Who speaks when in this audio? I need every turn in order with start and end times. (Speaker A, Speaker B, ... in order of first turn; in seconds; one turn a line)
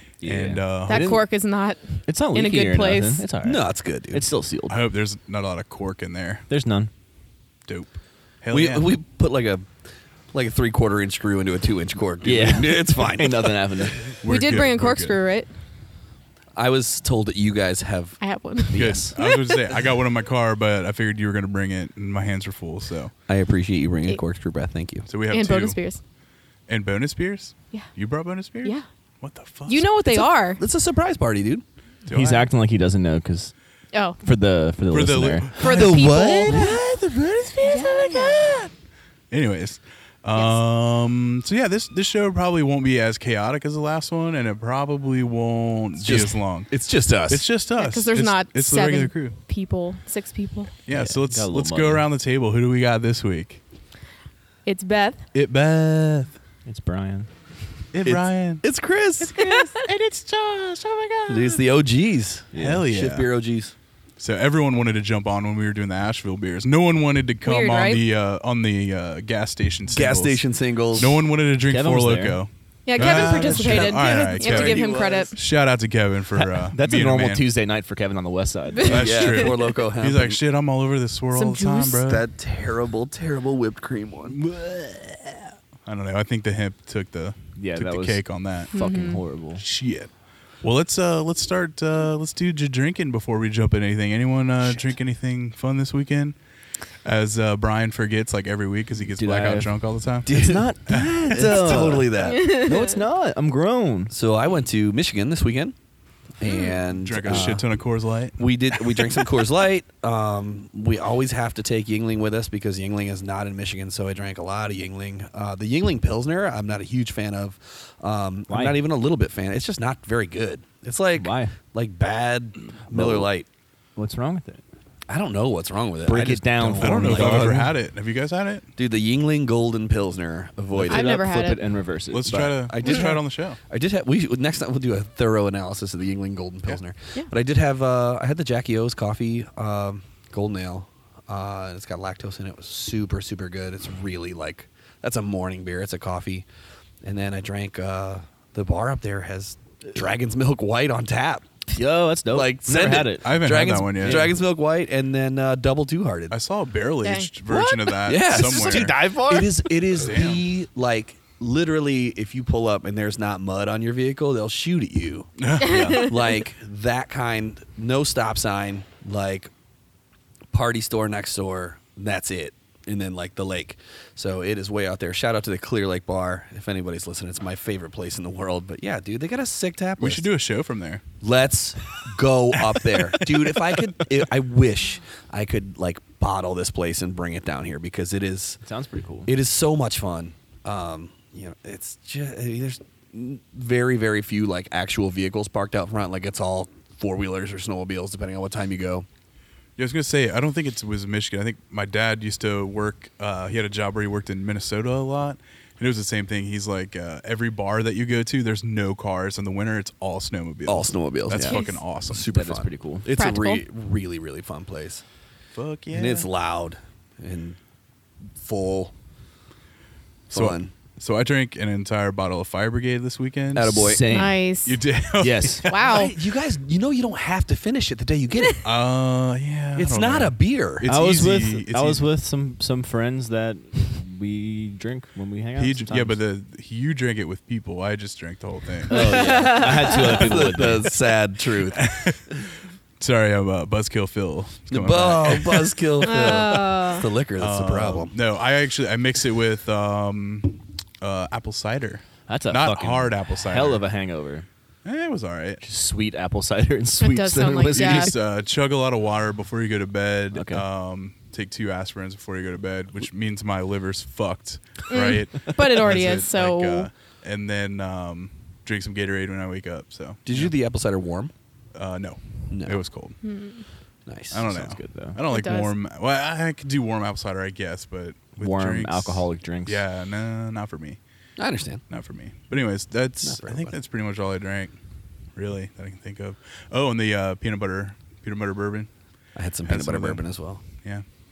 Speaker A: 0.2-1.1
Speaker B: 0.2-1.2
Speaker C: 0.9-3.2
Speaker A: 2.0-4.8
Speaker D: 3.4-4.2
Speaker B: 4.7-6.5
Speaker A: 6.5-6.9
Speaker B: 7.7-8.9
Speaker D: 8.5-9.7
Speaker D: 10.3-13.8
Speaker A: 12.2-14.0
Speaker B: 14.2-15.2
Speaker C: 14.2-15.5
Speaker D: 16.6-18.2
Speaker C: 18.2-19.7
Speaker A: 18.7-19.1
Speaker B: 18.7-23.1
Speaker D: 23.3-25.1
Speaker B: 25.1-25.8
Speaker C: 25.3-26.0
Speaker B: 26.7-29.9
Speaker C: 29.7-30.6
Speaker D: 30.1-31.6
Speaker B: 32.0-32.5
Speaker A: 32.1-33.5
Speaker C: 33.9-34.2
Speaker A: 34.2-35.6
Speaker B: 34.9-36.8
Speaker C: 35.6-36.7
Speaker D: 35.6-38.6
Speaker C: 37.6-38.4
Speaker B: 39.3-46.7
Speaker D: 46.0-47.5
Speaker B: 47.2-49.4
Speaker C: 47.8-50.7
Speaker B: 50.8-53.6
Speaker A: 50.9-52.0
Speaker C: 54.6-55.2
Speaker B: 55.3-56.3
Speaker A: 56.6-57.3
Speaker B: 57.9-58.6
Speaker D: 58.0-59.4
Speaker B: 59.2-61.6
Speaker C: 59.4-59.8
Speaker D: 61.3-63.7
Speaker A: 62.5-62.8
Speaker B: 62.5-63.3
Speaker B: 64.2-77.5
Speaker C: 67.4-68.0
Speaker D: 69.9-71.2
Speaker A: 71.7-72.4
Speaker C: 72.8-75.3
Speaker D: 73.0-75.3
Speaker A: 76.3-79.0
Speaker C: 78.8-79.5
Speaker B: 78.8-82.2
Speaker D: 78.9-80.4
Speaker C: 81.3-82.0
Speaker D: 82.0-84.4
Speaker B: 84.3-88.7
Speaker A: 87.5-89.6
Speaker C: 88.7-89.2
Speaker B: 89.5-90.1
Speaker B: 90.6-96.3
Speaker B: 97.0-101.5
Speaker A: 99.2-104.1
Speaker D: 100.2-100.6
Speaker D: 101.3-102.7
Speaker C: 102.2-102.9
Speaker D: 104.1-105.7
Speaker D: 106.4-107.6
Speaker B: 107.0-109.2
Speaker D: 108.4-123.5
Speaker A: 118.5-118.8
Speaker A: 121.1-121.5
Speaker A: 122.9-123.3
Speaker A: 124.0-124.6
Speaker D: 125.1-127.5
Speaker A: 126.0-127.7
Speaker B: 126.8-128.7
Speaker D: 128.8-131.2
Speaker A: 130.7-132.6
Speaker C: 130.9-131.6
Speaker B: 132.1-133.6
Speaker D: 132.7-146.4
Speaker D: 147.0-151.4
Speaker A: 151.7-153.3
Speaker D: 152.3-156.3
Speaker B: 153.2-154.3
Speaker A: 153.9-154.3
Speaker B: 156.3-159.0
Speaker C: 157.0-158.1
Speaker D: 158.0-169.5
Speaker A: 158.3-159.7
Speaker B: 159.9-160.4
Speaker B: 165.4-166.1
Speaker C: 165.6-166.1
Speaker A: 165.7-166.0
Speaker D: 170.5-180.2
Speaker B: 180.0-181.0
Speaker D: 181.2-188.6
Speaker B: 182.7-183.8
Speaker A: 188.6-189.3
Speaker D: 189.2-199.1
Speaker B: 199.8-212.3
Speaker D: 210.7-215.0
Speaker C: 211.4-211.8
Speaker A: 212.3-213.1
Speaker C: 213.1-213.6
Speaker B: 215.5-216.3
Speaker D: 215.9-217.6
Speaker D: 218.4-218.9
Speaker B: 220.3-223.9
Speaker D: 220.3-220.7
Speaker D: 223.5-224.1
Speaker A: 223.7-224.4
Speaker C: 224.1-224.8
Speaker B: 224.6-226.0
Speaker A: 225.2-225.7
Speaker C: 225.7-226.1
Speaker D: 225.7-228.6
Speaker B: 228.6-232.0
Speaker D: 229.7-230.9
Speaker A: 230.8-236.2
Speaker B: 235.6-239.5
Speaker A: 238.9-240.9
Speaker C: 238.9-240.1
Speaker D: 239.2-241.8
Speaker B: 241.7-242.2
Speaker B: 243.0-246.6
Speaker D: 244.7-248.1
Speaker C: 246.0-247.1
Speaker B: 247.4-253.8
Speaker A: 252.3-254.4
Speaker B: 254.8-255.6
Speaker A: 255.6-258.1
Speaker C: 257.0-258.1
Speaker B: 257.7-270.5
Speaker A: 260.3-260.6
Speaker C: 264.9-266.9
Speaker D: 270.2-271.3
Speaker B: 271.7-273.2
Speaker D: 272.5-272.8
Speaker C: 273.2-273.6
Speaker D: 274.1-274.5
Speaker B: 274.3-281.0
Speaker A: 274.5-275.2
Speaker C: 275.3-275.7
Speaker A: 278.4-279.8
Speaker D: 281.4-281.8
Speaker B: 281.9-284.7
Speaker D: 283.2-283.7
Speaker B: 285.3-288.9
Speaker D: 289.3-290.6
Speaker B: 289.6-290.2